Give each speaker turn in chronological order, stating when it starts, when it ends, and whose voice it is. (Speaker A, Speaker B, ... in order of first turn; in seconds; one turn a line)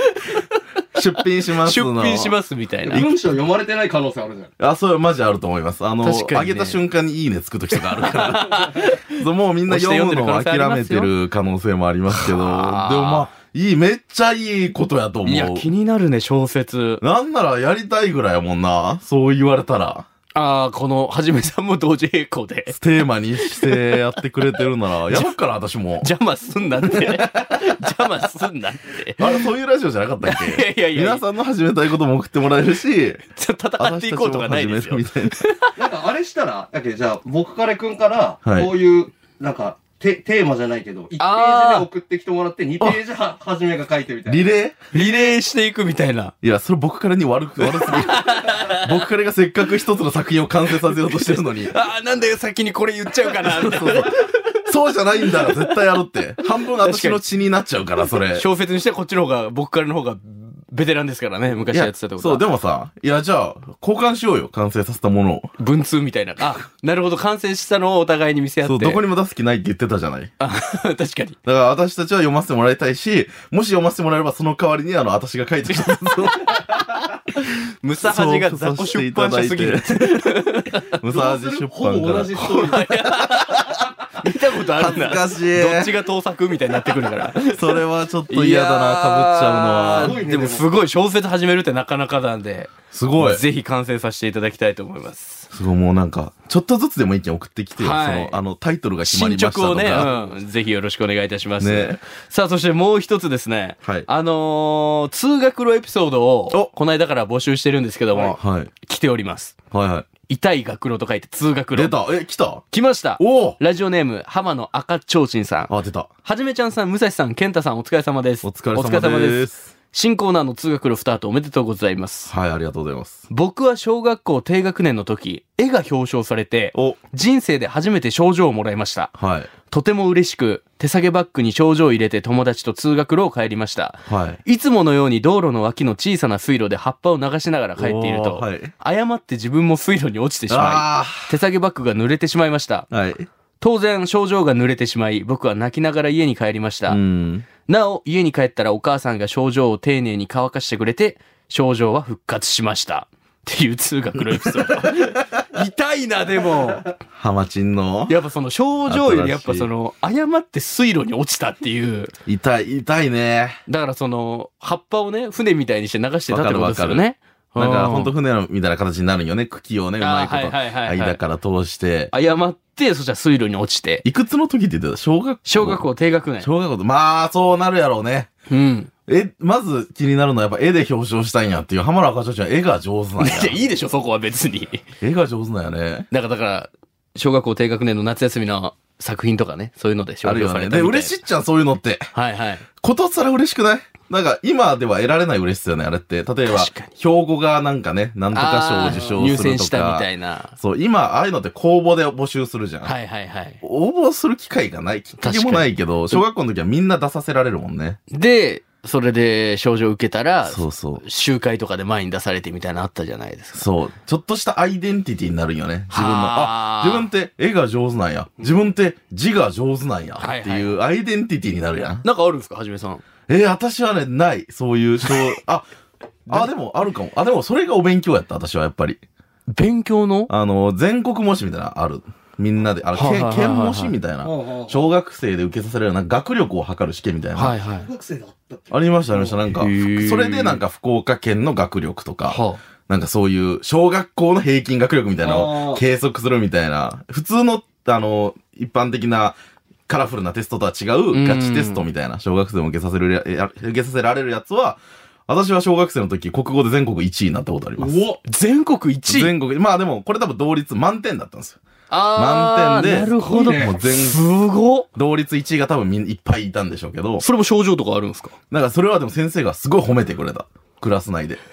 Speaker A: 0.9-2.3
Speaker B: 1.6-3.1
Speaker C: 2.9-4.5
Speaker A: 4.6-15.7
Speaker B: 6.0-6.8
Speaker B: 7.8-11.1
Speaker B: 12.1-13.3
Speaker B: 15.2-17.0
Speaker A: 17.0-20.1
Speaker B: 20.4-22.8
Speaker A: 22.7-26.1
Speaker B: 23.4-23.9
Speaker B: 26.0-29.4
Speaker A: 26.8-27.6
Speaker A: 29.2-33.2
Speaker B: 30.2-31.2
Speaker B: 33.3-35.7
Speaker A: 33.8-35.5
Speaker C: 35.8-45.3
Speaker A: 38.5-38.7
Speaker B: 41.2-41.9
Speaker A: 44.2-44.9
Speaker B: 44.9-46.3
Speaker A: 46.4-51.7
Speaker B: 47.6-48.9
Speaker B: 50.9-54.3
Speaker A: 53.4-58.5
Speaker B: 56.8-57.2
Speaker B: 58.3-62.5
Speaker A: 61.7-65.5
Speaker B: 65.6-69.0
Speaker A: 68.6-70.3
Speaker B: 70.4-71.4
Speaker A: 71.5-76.7
Speaker B: 75.7-80.9
Speaker A: 78.0-80.3
Speaker A: 81.0-83.8
Speaker C: 81.1-82.9
Speaker B: 82.4-95.5
Speaker A: 84.8-85.9
Speaker A: 87.3-90.2
Speaker C: 90.0-90.7
Speaker A: 92.9-93.4
Speaker A: 95.5-100.1
Speaker B: 97.8-98.4
Speaker B: 99.0-109.6
Speaker C: 100.0-100.4
Speaker A: 101.6-102.0
Speaker A: 108.3-108.7
Speaker A: 109.7-110.1
Speaker B: 110.3-112.0
Speaker A: 111.7-112.6
Speaker B: 112.7-115.7
Speaker A: 113.2-113.6
Speaker A: 115.7-116.1
Speaker B: 116.2-122.3
Speaker A: 118.4-119.7
Speaker A: 122.3-123.2
Speaker B: 123.3-129.1
Speaker A: 126.7-127.0
Speaker A: 129.2-129.5
Speaker B: 129.7-142.9
Speaker A: 134.1-134.4
Speaker A: 137.8-138.7
Speaker A: 140.5-141.3
Speaker A: 142.9-143.3
Speaker B: 143.6-147.0
Speaker A: 146.9-147.5
Speaker B: 147.6-156.9
Speaker A: 154.4-155.1
Speaker A: 157.1-158.2
Speaker B: 158.1-162.1
Speaker A: 158.9-159.7
Speaker A: 162.2-163.6
Speaker B: 163.7-168.1
Speaker A: 166.3-167.0
Speaker A: 167.6-172.1
Speaker B: 170.0-171.2
Speaker B: 172.1-174.1
Speaker A: 174.1-175.8
Speaker B: 175.5-176.5
Speaker A: 176.4-178.3
Speaker B: 178.5-178.9
Speaker A: 179.1-183.6
Speaker B: 183.2-184.8
Speaker A: 185.0-186.1
Speaker B: 186.1-191.2
Speaker A: 190.2-192.1
Speaker B: 192.1-192.6
Speaker A: 192.8-200.1
Speaker B: 196.5-196.9
Speaker B: 198.3-200.5
Speaker C: 198.9-199.2
Speaker A: 200.6-202.9
Speaker B: 202.8-203.6
Speaker A: 203.6-208.0
Speaker B: 205.2-206.2
Speaker B: 208.1-213.7
Speaker A: 210.5-211.0
Speaker A: 213.5-222.1
Speaker B: 215.9-217.1
Speaker B: 220.2-220.8
Speaker B: 222.0-223.0
Speaker A: 223.3-225.7
Speaker A: 226.3-229.0
Speaker B: 229.5-230.3
Speaker A: 230.3-237.6
Speaker B: 232.9-233.9
Speaker C: 234.2-234.9
Speaker B: 237.4-237.9
Speaker C: 237.7-239.4
Speaker A: 238.7-249.4
Speaker B: 239.6-240.6
Speaker B: 242.3-242.6
Speaker C: 245.2-245.8
Speaker A: 249.9-258.1
Speaker B: 251.1-251.8
Speaker C: 257.8-258.2
Speaker B: 258.2-259.3
Speaker A: 259.1-261.6
Speaker B: 261.9-264.9
Speaker A: 262.1-264.2
Speaker C: 263.2-263.8
Speaker A: 264.9-267.2
Speaker B: 267.2-268.4
Speaker A: 268.5-271.4